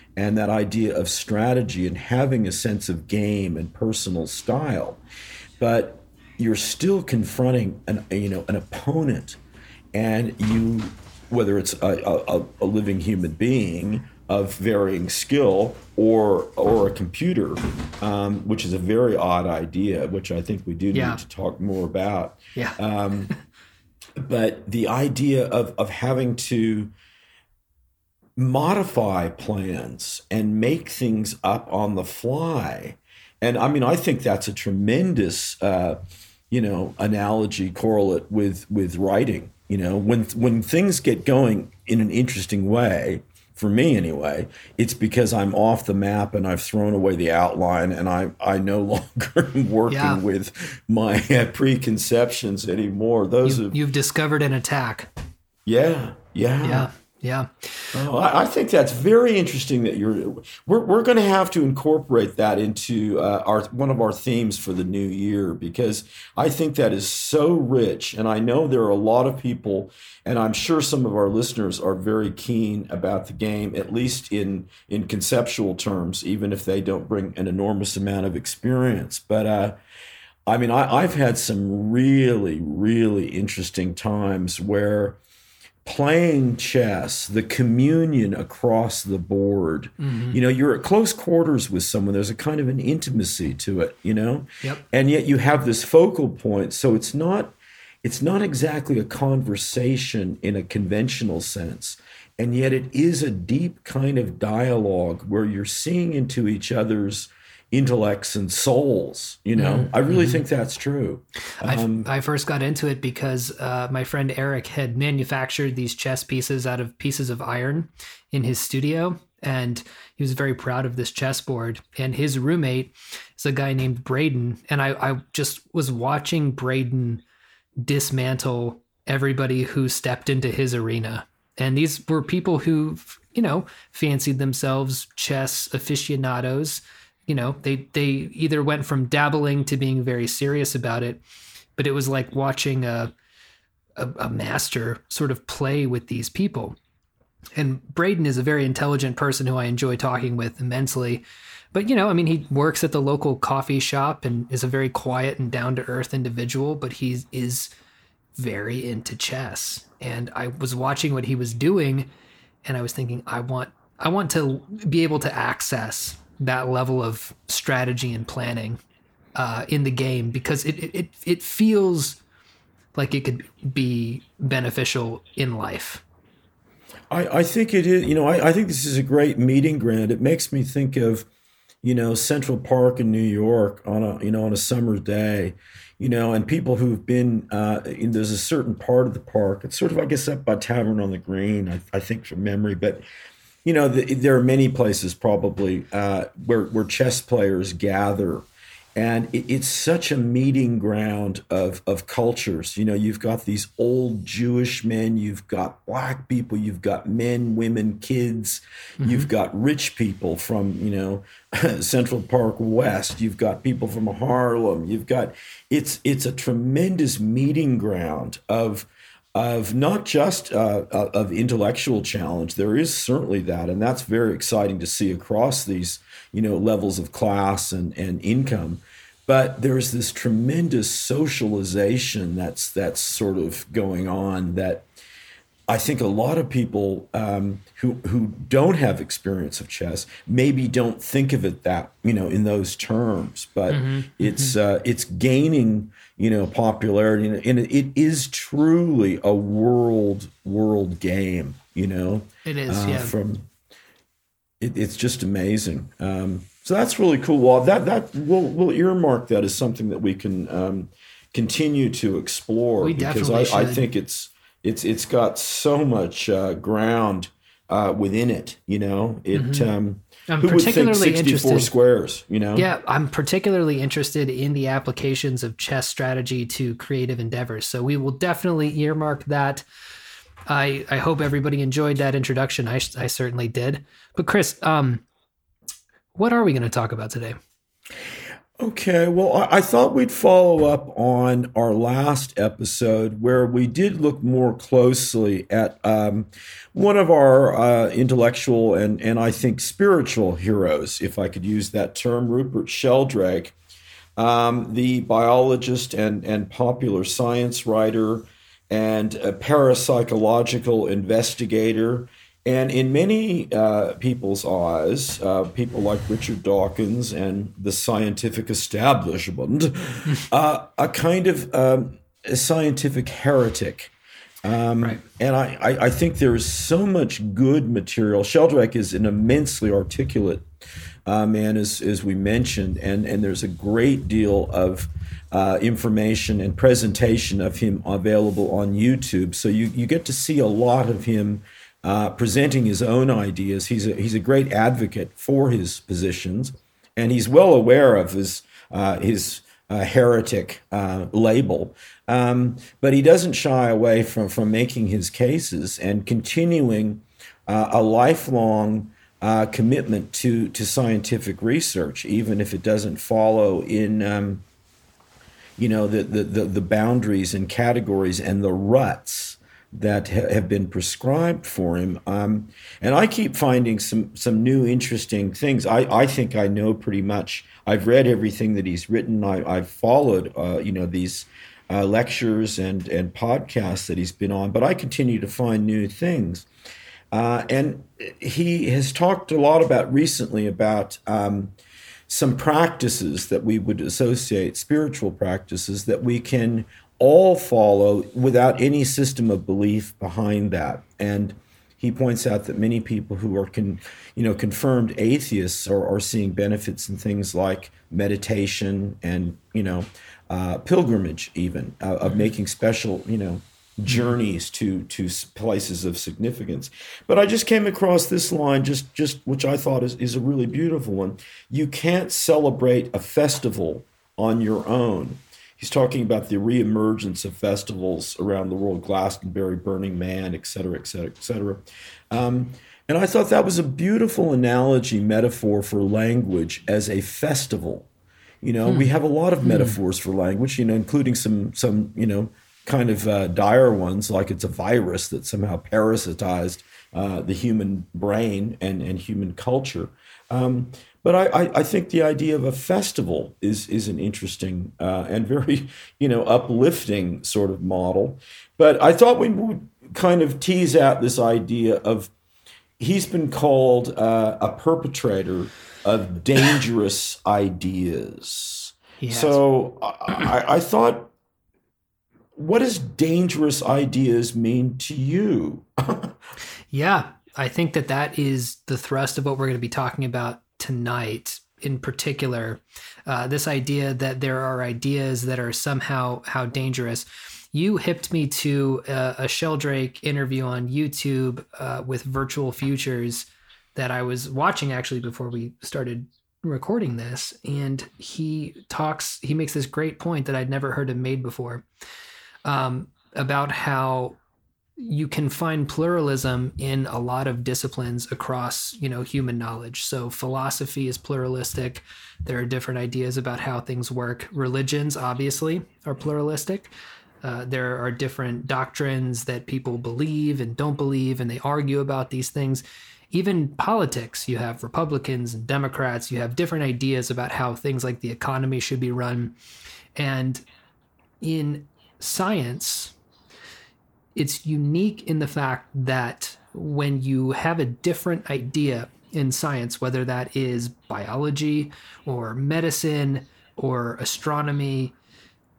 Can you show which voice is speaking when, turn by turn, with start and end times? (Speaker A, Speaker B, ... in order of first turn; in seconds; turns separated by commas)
Speaker A: 0.2-5.0, Speaker A: 5.6-9.4, Speaker A: 9.9-23.3, Speaker B: 20.9-21.2, Speaker A: 24.2-26.9, Speaker A: 28.4-36.0, Speaker A: 36.5-53.8, Speaker B: 49.9-50.2, Speaker B: 53.5-55.1, Speaker A: 55.7-56.9, Speaker B: 56.6-57.9, Speaker A: 57.9-79.8, Speaker A: 80.5-85.2, Speaker A: 85.8-112.1, Speaker B: 90.0-90.4, Speaker B: 109.6-110.4, Speaker B: 111.6-127.2, Speaker B: 127.8-141.2, Speaker B: 141.8-143.1, Speaker B: 144.0-146.8, Speaker B: 147.6-151.2, Speaker B: 151.7-157.7, Speaker B: 158.4-162.1, Speaker B: 162.7-168.8, Speaker B: 169.3-172.2, Speaker B: 172.9-176.0, Speaker A: 177.1-181.3, Speaker A: 181.8-193.0, Speaker A: 193.7-234.9, Speaker B: 209.0-209.3, Speaker A: 235.7-253.5, Speaker B: 243.7-244.6, Speaker B: 252.4-253.1, Speaker A: 254.6-272.7, Speaker B: 262.8-263.9, Speaker B: 269.3-269.7, Speaker B: 270.3-271.7, Speaker B: 272.6-279.6, Speaker B: 280.5-285.0, Speaker B: 286.1-287.4, Speaker A: 288.6-303.6, Speaker A: 304.2-323.9, Speaker A: 324.4-330.5, Speaker A: 331.1-364.4, Speaker A: 365.6-386.5, Speaker A: 387.1-391.5, Speaker A: 392.1-437.9, Speaker A: 438.4-462.1, Speaker B: 439.4-439.8, Speaker A: 462.8-471.1, Speaker B: 469.0-469.4, Speaker A: 472.4-476.2, Speaker B: 476.7-501.6, Speaker B: 502.4-504.2, Speaker B: 504.8-516.7, Speaker B: 517.2-529.4, Speaker B: 530.0-530.4, Speaker B: 531.2-533.0, Speaker B: 534.2-544.9